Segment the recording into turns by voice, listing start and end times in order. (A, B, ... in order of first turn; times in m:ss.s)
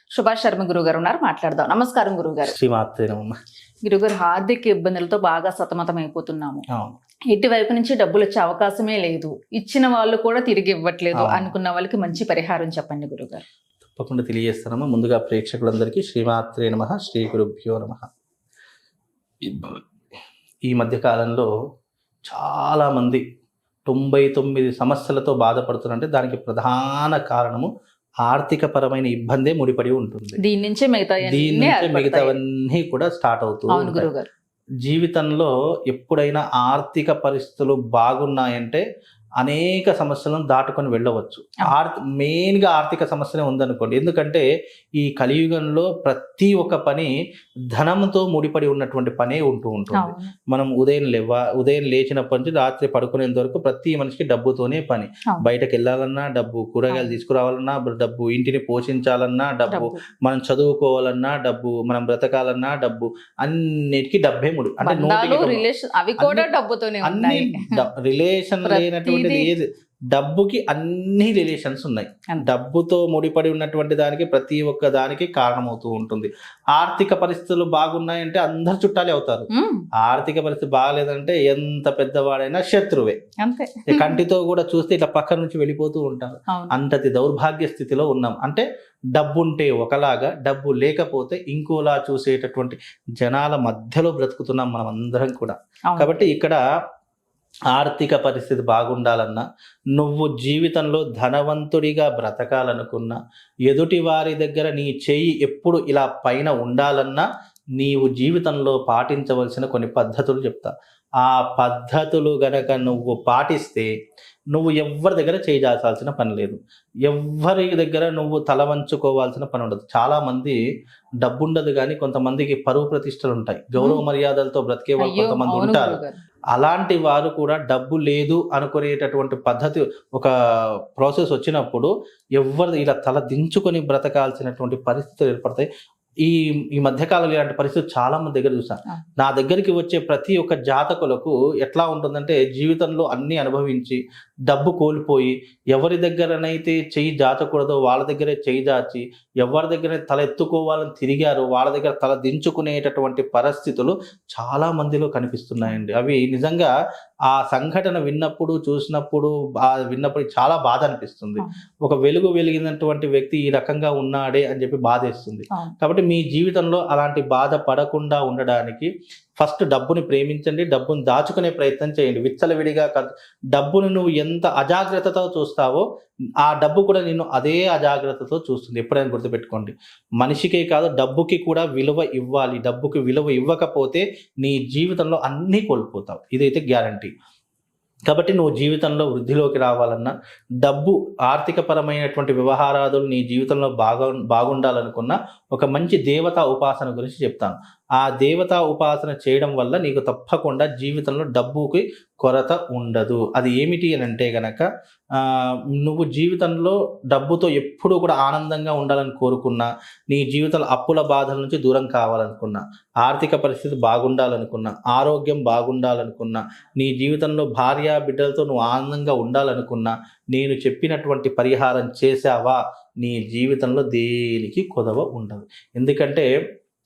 0:00.2-0:02.6 A
0:02.4-0:03.4 B
0:03.9-0:06.6 A
0:07.3-0:13.4 A
0:11.2-0:11.5 B
0:14.0-0:18.1 B
0:19.4-0:19.8 B
0:20.7-0:21.5 B
0:22.3-0:23.2 B
0:23.9-0:27.7 B
0:28.3-0:30.4 B
0:30.4-0:32.4 A
0:31.3-0:34.1 B
0:33.7-0:34.3 A
0:34.8-0:38.8 B
0:39.4-0:44.5 B
0:45.0-0:47.1 B
0:47.8-1:05.6 B
0:50.0-0:50.3 A
0:56.9-0:57.2 A
0:59.7-1:00.0 A
1:04.8-1:07.8 A
1:06.2-1:06.5 B
1:07.0-1:19.5 B
1:08.6-1:09.5 A
1:19.5-1:19.9 A
1:20.0-1:23.2 B
1:23.4-1:24.2 A
1:23.9-1:28.6 B
1:26.5-1:26.8 A
1:29.2-1:36.6 B
1:35.9-1:36.2 A
1:37.7-1:47.3 B
1:47.8-1:53.9 B
1:54.5-2:00.6 B
2:01.2-2:06.0 B
2:05.0-2:06.2 A
2:06.5-2:10.3 B
2:11.0-2:15.7 B
2:16.2-2:36.7 B
2:37.3-2:55.8 B
2:56.4-3:07.1 B
3:08.1-3:46.3 B